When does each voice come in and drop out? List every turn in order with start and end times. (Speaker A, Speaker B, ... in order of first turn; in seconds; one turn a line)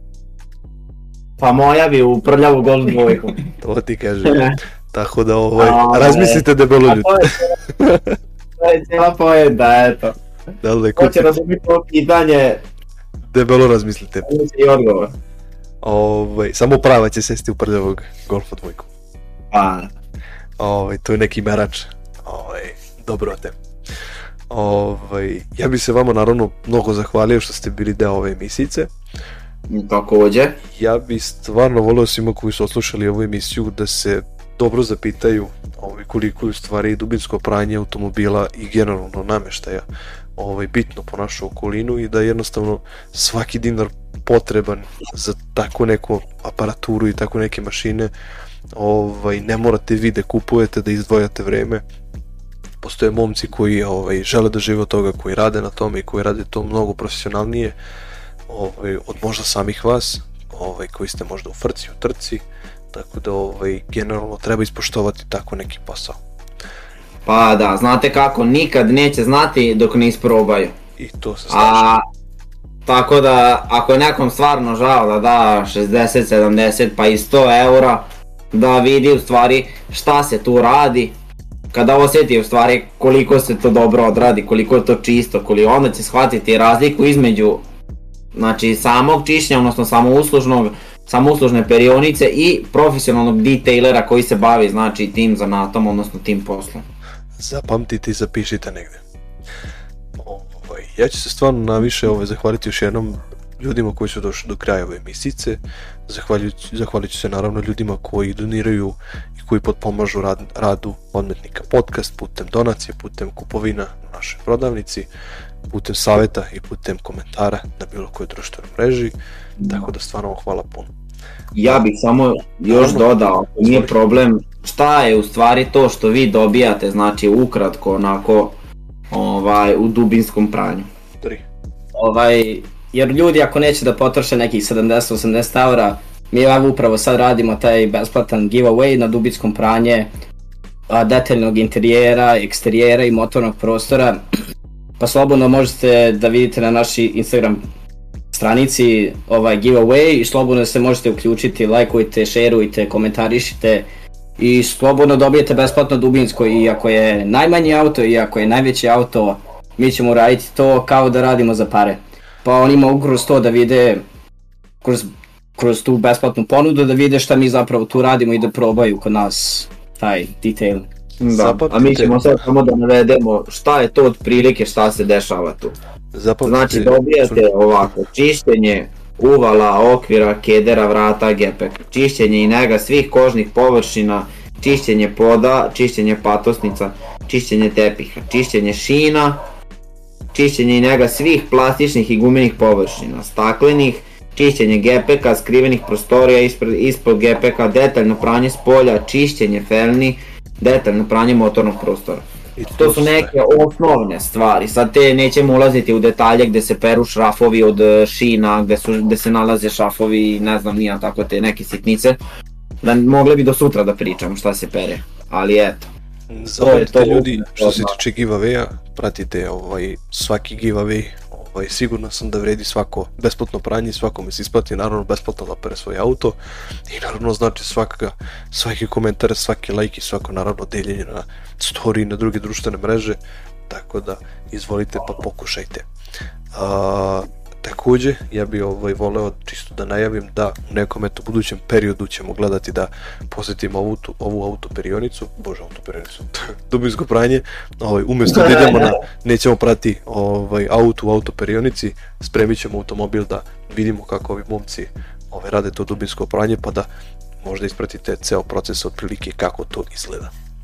Speaker A: 1.4-3.4
Speaker B: 3.6-8.2
Speaker A: 4.2-4.6
Speaker A: 5.6-7.5
Speaker A: 8.6-10.1
Speaker B: 10.6-11.3
Speaker A: 10.9-12.6
Speaker B: 13.3-14.3
Speaker A: 14.2-15.1
Speaker B: 15.8-18.9
Speaker A: 19.5-19.9
Speaker B: 20.6-23.5
Speaker B: 24.5-28.9
Speaker A: 29.7-30.6
Speaker B: 30.6-39.8
Speaker B: 40.4-48.1
Speaker B: 48.7-51.8
Speaker B: 52.8-57.8
Speaker B: 58.5-66.2
Speaker A: 67.2-70.8
Speaker B: 71.0-71.9
Speaker A: 71.5-72.0
Speaker A: 72.8-81.1
Speaker A: 81.7-87.6
Speaker A: 88.3-96.8
Speaker B: 97.4-99.0
Speaker B: 100.2-115.1
Speaker B: 115.7-119.1
Speaker A: 119.6-119.8
Speaker B: 119.7-120.9
Speaker A: 121.5-128.5
Speaker B: 122.7-123.9
Speaker A: 129.1-130.9
Speaker C: 131.9-140.1
Speaker C: 140.9-144.2
Speaker C: 145.0-147.6
Speaker C: 148.3-153.9
Speaker C: 154.4-164.0
Speaker C: 164.8-170.8
Speaker A: 171.2-175.8
Speaker B: 171.3-172.2
Speaker B: 176.1-177.9
Speaker A: 176.4-189.4
Speaker A: 190.3-202.2
Speaker B: 202.6-203.3
Speaker A: 202.8-212.2
Speaker A: 212.8-215.9
Speaker B: 216.3-235.8
Speaker A: 216.6-218.0
Speaker B: 236.5-256.9
Speaker A: 248.5-248.7
Speaker B: 257.4-260.3